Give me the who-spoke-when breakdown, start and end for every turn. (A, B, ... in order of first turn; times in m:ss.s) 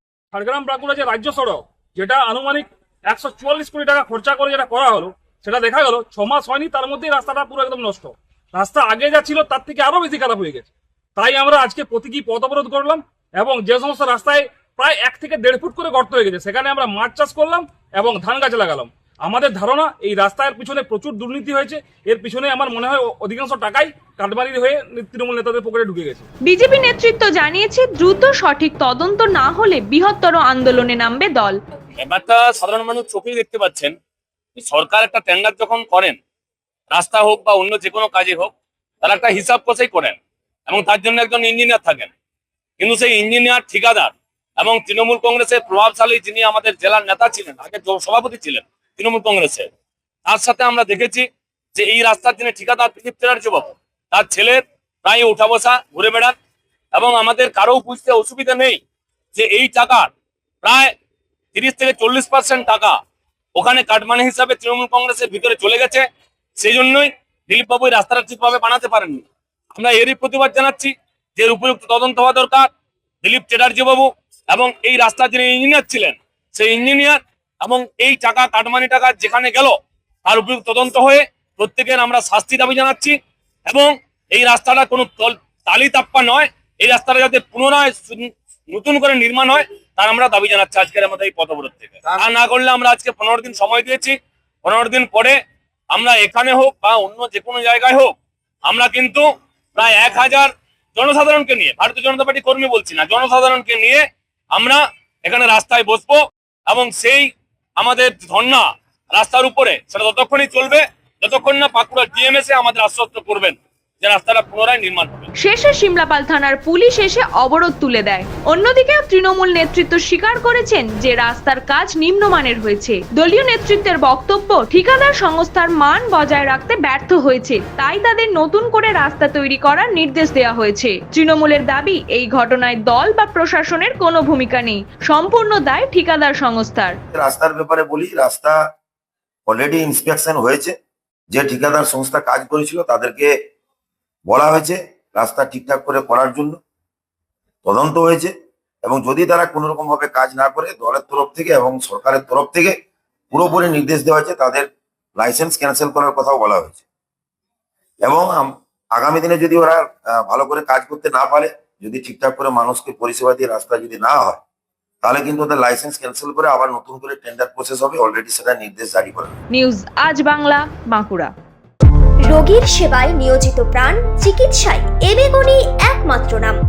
0:00.3-0:26.3 A
0:26.4-0:31.6 B
0:32.0-0:33.9 C
0:34.6-0:36.2 C
0:36.9-0:42.1 C
0:42.8-0:49.7 C
0:50.3-0:56.4 C
0:56.9-0:58.8 C
0:59.4-1:00.1 C
1:00.6-1:00.9 C
1:01.5-1:03.0 C
1:03.6-1:06.1 C
1:06.6-1:12.7 C
1:13.2-1:35.4 C
1:35.9-1:55.3 C
1:55.4-2:17.0 B
2:17.1-2:18.6 D
2:19.5-2:20.8 D
2:21.3-2:23.3 D
2:24.3-2:26.6 D
2:27.6-2:28.3 D
2:28.8-2:32.8 D
2:33.3-2:36.8 D
2:38.0-2:44.4 D
2:45.0-2:49.3 D
2:49.5-2:51.3 B
2:52.2-2:56.6 E